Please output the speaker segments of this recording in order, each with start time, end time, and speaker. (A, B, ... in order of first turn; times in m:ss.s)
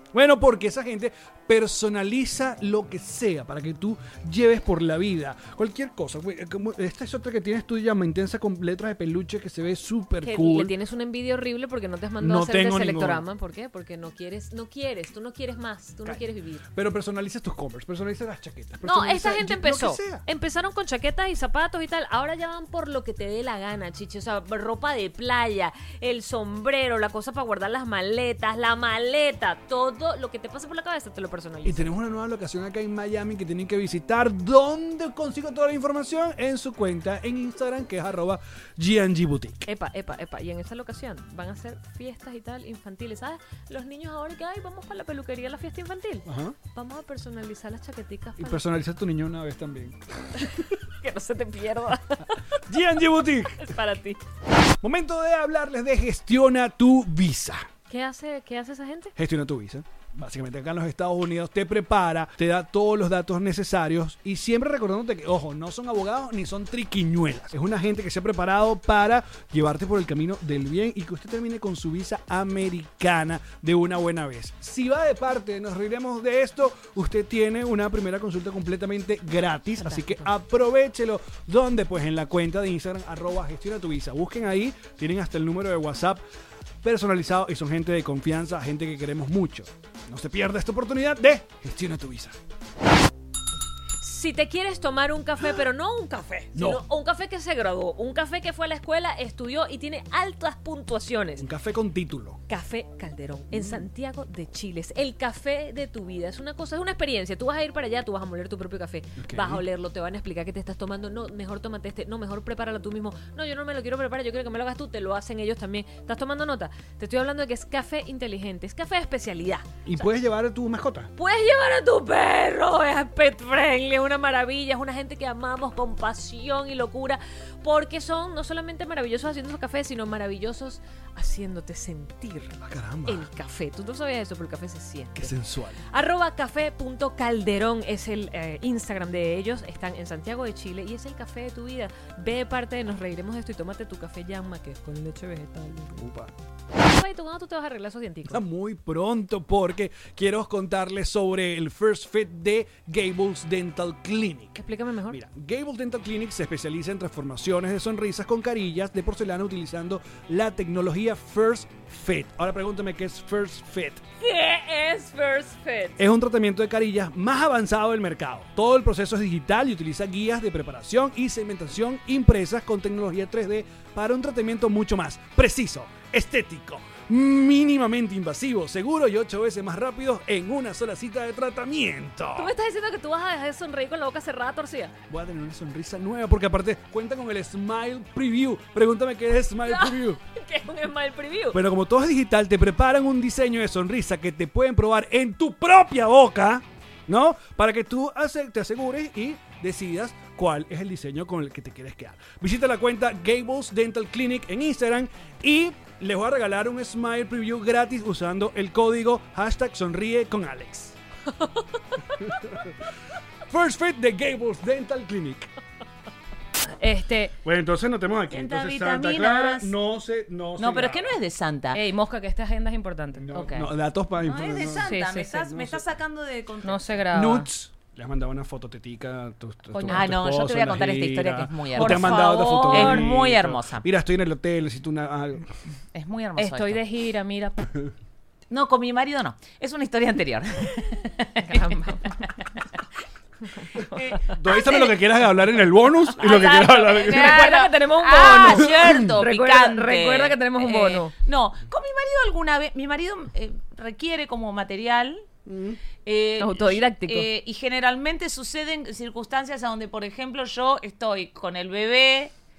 0:00.1-0:10.7 A
0:10.2-0:16.6 B
0:12.2-0:13.2 A
0:16.7-0:20.2 A
0:18.8-0:31.9 B
0:31.6-0:39.7 A
0:39.7-0:48.6 B
0:46.3-0:46.6 A
0:48.4-0:50.6 A
0:50.4-0:52.4 B
0:52.7-0:53.7 A
0:53.6-0:54.2 B
0:54.8-0:57.7 A
0:57.9-0:59.1 B
0:59.2-1:26.2 A
1:19.8-1:20.3 B
1:26.8-1:32.4 A
1:34.0-1:41.5 B
1:36.6-1:36.8 A
1:41.4-1:42.4 A
1:42.5-1:59.6 B
1:43.5-1:43.8 A
1:49.2-1:49.6 A
1:59.9-2:01.1 A
2:01.2-2:15.4 B
2:12.6-2:13.3 A
2:15.2-2:15.8 A
2:15.9-2:26.0 B
2:26.0-2:26.3 A
2:26.8-2:28.4 B
2:28.3-2:44.0 A
2:34.6-2:35.2 B
2:44.2-2:46.0 B
2:46.0-3:02.5 A
3:02.4-3:04.9 B
3:05.1-3:10.2 A
3:09.7-3:11.6 B
3:11.5-3:31.0 A
3:32.2-3:32.8 A
3:33.5-3:35.5 A
3:36.8-3:37.4 B
3:37.4-3:41.2 A
3:38.3-3:39.7 C
3:40.6-3:41.8 C
3:41.7-3:43.2 B
3:43.2-3:44.9 A
3:43.3-3:47.0 C
3:44.8-3:45.4 B
3:45.5-3:45.8 A
3:46.6-3:47.5 B
3:47.1-3:55.5 A
3:49.7-3:50.1 B
3:49.9-3:53.9 C
3:51.8-3:53.1 B
3:55.9-3:56.8 C
3:56.4-3:57.7 B
3:58.5-4:02.5 C
4:01.4-4:02.3 B
4:03.8-4:05.0 C
4:04.3-4:07.5 A
4:06.1-4:15.3 C
4:07.0-4:11.1 B
4:08.4-4:09.1 A
4:15.5-4:15.8 A
4:16.0-4:22.3 C
4:16.4-4:17.3 B